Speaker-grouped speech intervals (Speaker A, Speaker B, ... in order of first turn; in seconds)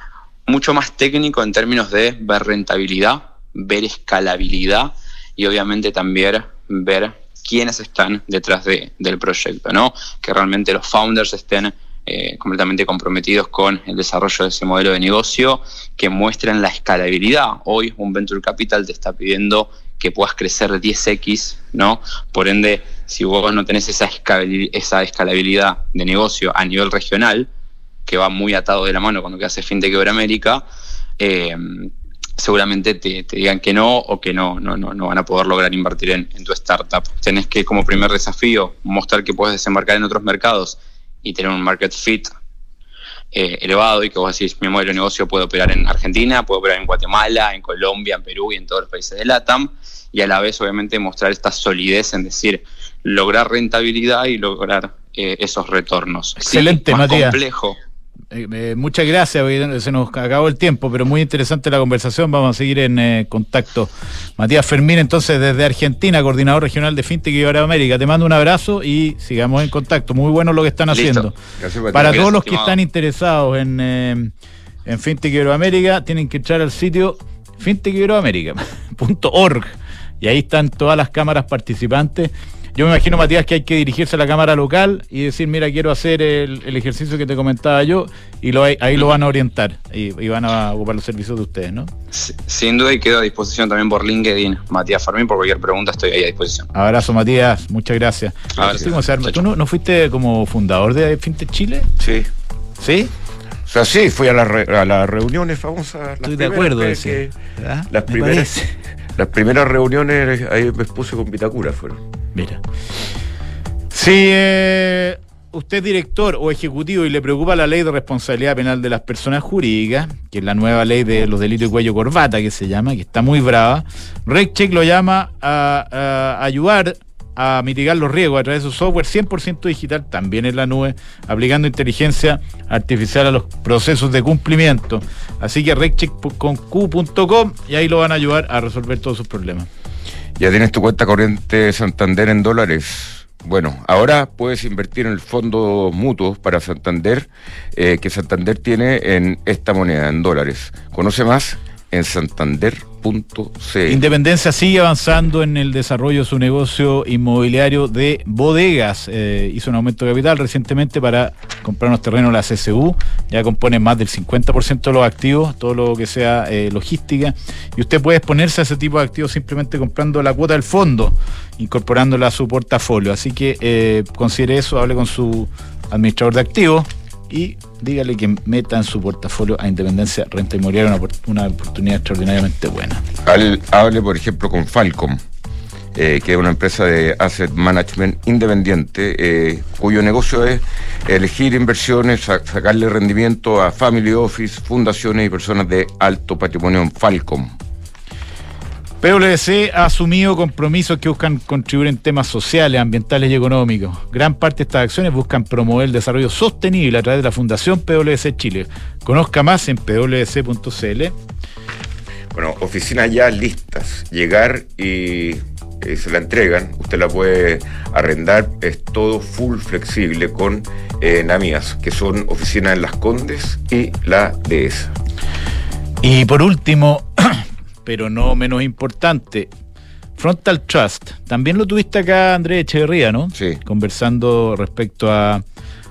Speaker A: 0.5-27.5, 28.1-30.6, 31.2-42.3, 43.3-57.8, 70.9-71.3, 71.9-72.8, 92.1-96.7, 98.6-99.4
Speaker B: 56.4-57.4, 58.3-71.3, 71.9-74.3, 74.8-91.9, 96.7-101.9, 102.8-103.1, 106.2-108.7, 112.3-112.6, 113.9-139.7, 153.9-183.0, 199.0-211.1, 226.0-229.5, 230.2-235.4
Speaker C: 71.6-72.3, 98.6-98.9, 102.0-102.3, 103.7-107.3, 107.9-108.5, 109.1-112.0, 140.4-154.1, 183.2-185.2, 185.9-197.5, 212.3-224.9, 233.3-233.6